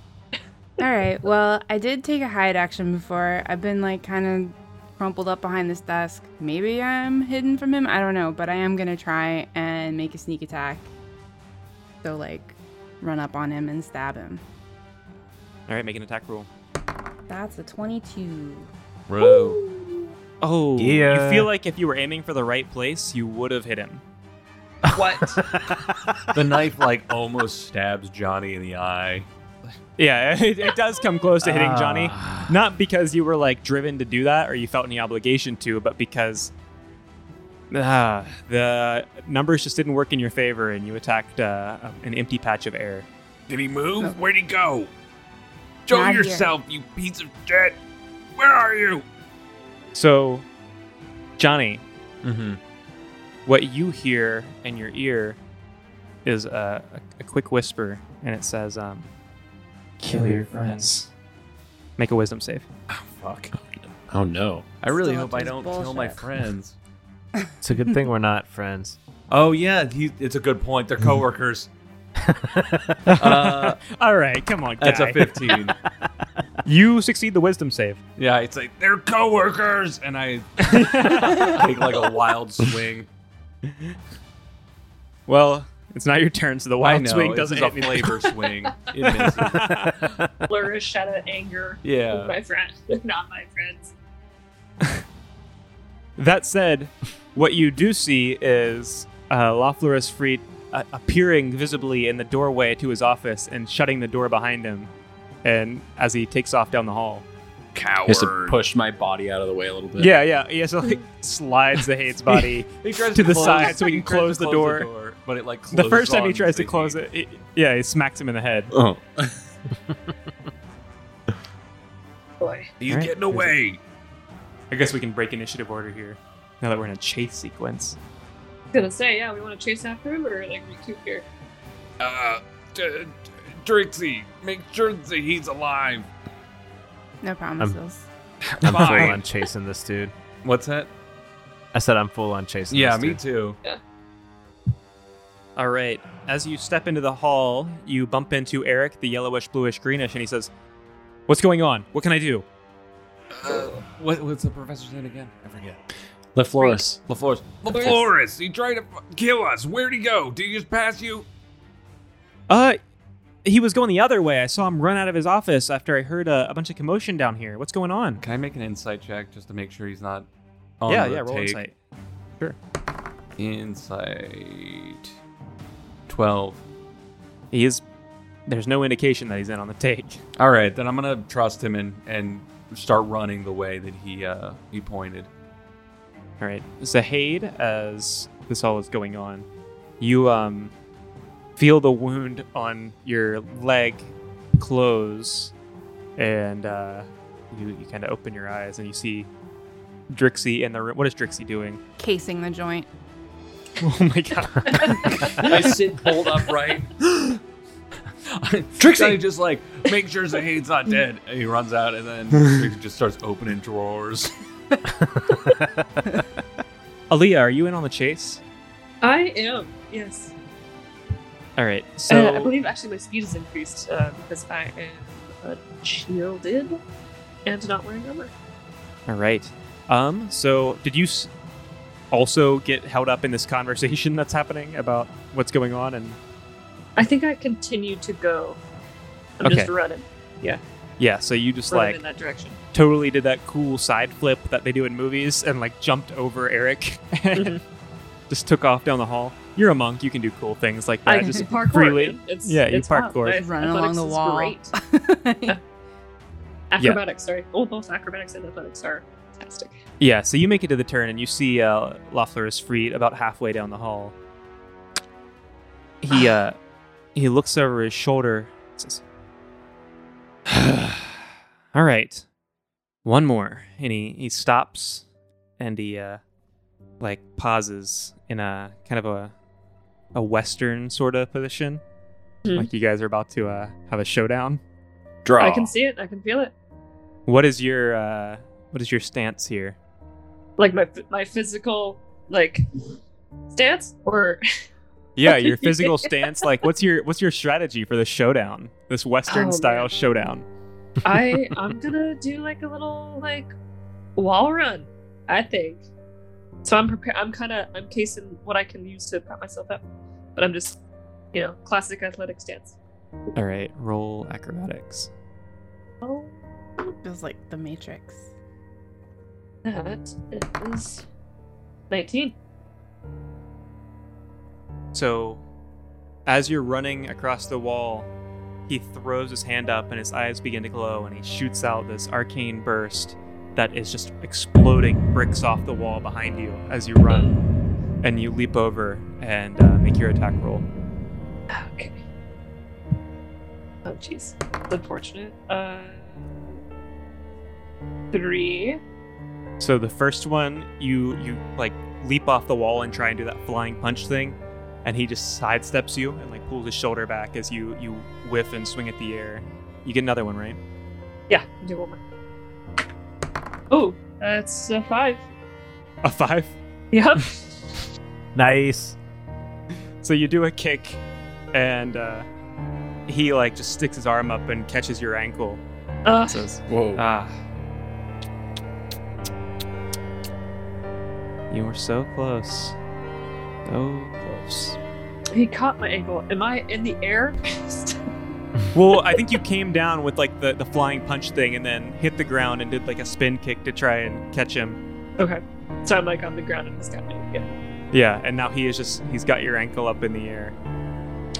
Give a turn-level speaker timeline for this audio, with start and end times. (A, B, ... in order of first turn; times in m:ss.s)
0:00.8-0:10.9 A
0:12.0-0:14.4 A
0:15.7-0:16.5 B
0:17.3-0:18.7 A
0:19.1-0:19.6 C
0:19.2-0:20.1 D
0:20.4-0:24.0 B
0:20.8-0:21.5 E
0:24.9-0:25.4 D
0:24.9-0:26.2 E
0:26.3-0:29.3 C
0:30.0-0:36.5 B
0:31.4-0:32.5 E
0:37.7-0:43.1 B
0:43.5-0:44.9 C
0:45.8-0:47.8 C
0:45.9-0:46.5 A
0:48.3-0:49.0 C
0:49.9-0:50.4 B
0:51.4-0:51.8 B
0:52.2-0:52.6 C
0:53.4-0:55.4 B
0:56.2-0:59.1 B
1:00.0-1:01.1 B
1:02.0-1:02.6 B
1:02.9-1:03.5 C
1:04.1-1:04.7 F
1:04.8-1:06.8 C
1:04.8-1:06.2 A
1:07.6-1:09.0 E
1:09.3-1:11.7 C
1:12.3-1:13.1 E
1:13.1-1:15.3 B
1:13.2-1:13.8 C
1:14.8-1:15.8 C
1:16.6-1:18.0 B
1:18.2-1:23.1 C
1:20.6-1:21.6 B
1:25.3-1:28.2 B
1:26.8-1:29.8 C
1:29.0-1:30.1 B
1:30.5-1:33.9 D
1:31.8-1:32.3 C
1:36.2-1:44.9 B
1:45.4-1:47.2 B
1:47.7-1:48.6 C
1:48.0-1:50.2 F
1:50.0-1:54.9 B
1:52.8-1:57.0 C
1:55.7-1:58.7 B
1:58.7-1:59.4 F
2:02.4-2:02.7 D
2:02.8-2:03.8 C
2:02.9-2:03.5 B
2:04.7-2:08.0 B
2:08.7-2:11.2 D
2:12.0-2:16.1 C
2:17.2-2:18.1 A
2:18.4-2:19.2 C
2:18.6-2:20.1 E
2:20.4-2:20.9 C
2:21.7-2:23.2 E
2:22.7-2:23.6 C
2:25.6-2:30.5 B
2:31.3-2:32.4 B
2:33.3-2:35.8 C
2:33.5-2:33.8 D
2:36.3-2:37.0 F
2:37.1-2:41.3 C
2:37.7-2:38.0 D
2:42.5-2:42.8 B
2:43.4-2:48.2 B
2:48.2-2:50.3 C
2:50.8-2:51.6 C
2:50.9-2:51.7 B
2:53.4-2:55.1 C
2:56.1-2:56.6 C
2:57.5-2:57.8 B
2:58.5-3:00.2 B
3:00.4-3:05.3 C
3:06.4-3:09.4 B
3:10.0-3:10.7 B
3:11.6-3:15.5 B
3:16.2-3:19.3 B
3:20.1-3:21.8 B
3:22.0-3:22.9 A
3:23.8-3:25.7 B
3:24.6-3:25.5 D
3:25.4-3:26.8 F
3:26.4-3:27.4 C
3:26.5-3:26.8 D
3:28.2-3:34.3 C
3:35.0-3:35.7 E
3:37.1-3:38.4 B
3:39.0-3:40.3 D
3:41.6-3:42.5 B
3:42.1-3:46.8 D
3:47.4-3:48.3 D
3:49.1-3:51.3 B
3:52.1-3:56.2 B
3:57.0-3:58.6 D
3:59.4-4:00.6 D
3:59.4-3:59.7 B
4:01.0-4:02.0 B
4:01.7-4:02.6 D
4:02.7-4:07.6 B
4:07.3-4:07.6 D
4:08.3-4:13.4 B
4:11.0-4:14.7 D
4:13.3-4:15.6 A
4:16.7-4:19.8 D
4:20.0-4:24.1 B
4:26.0-4:26.6 B
4:27.1-4:29.0 B
4:30.5-4:32.2 B
4:33.0-4:35.0 B
4:35.6-4:36.2 B
4:37.0-4:39.3 B
4:40.1-4:41.8 B
4:42.5-4:44.6 B
4:45.2-4:45.7 F
4:45.4-4:46.5 D
4:47.3-4:49.8 B
4:50.6-4:52.6 D
4:53.5-4:54.4 D
4:55.2-5:00.4 B
4:55.2-4:56.4 D
4:59.3-4:59.9 D
5:01.0-5:03.5 D
5:04.2-5:05.8 D
5:06.6-5:09.8 D
5:10.3-5:10.8 D
5:11.3-5:12.7 D
5:13.4-5:15.1 B
5:16.0-5:16.9 D
5:17.0-5:18.2 A
5:19.6-5:21.0 D
5:21.9-5:22.3 D
5:24.9-5:25.4 B
5:26.2-5:28.1 B
5:28.7-5:37.3 B
5:37.1-5:37.4 D
5:38.0-5:40.6 B
5:41.5-5:42.0 D
5:43.8-5:46.6 D
5:48.1-5:48.8 D
5:49.6-6:00.6 B
6:01.3-6:02.0 D
6:03.7-6:05.2 D
6:06.0-6:06.6 B
6:06.9-6:07.4 D
6:08.3-6:09.0 E
6:10.0-6:11.0 B
6:11.5-6:12.3 B
6:13.1-6:15.6 B
6:16.0-6:16.5 D
6:16.3-6:17.3 B
6:16.7-6:17.0 F
6:21.5-6:22.7 B
6:23.6-6:24.8 B
6:25.3-6:28.0 D
6:28.7-6:34.8 B
6:35.2-6:37.4 D
6:37.9-6:40.5 B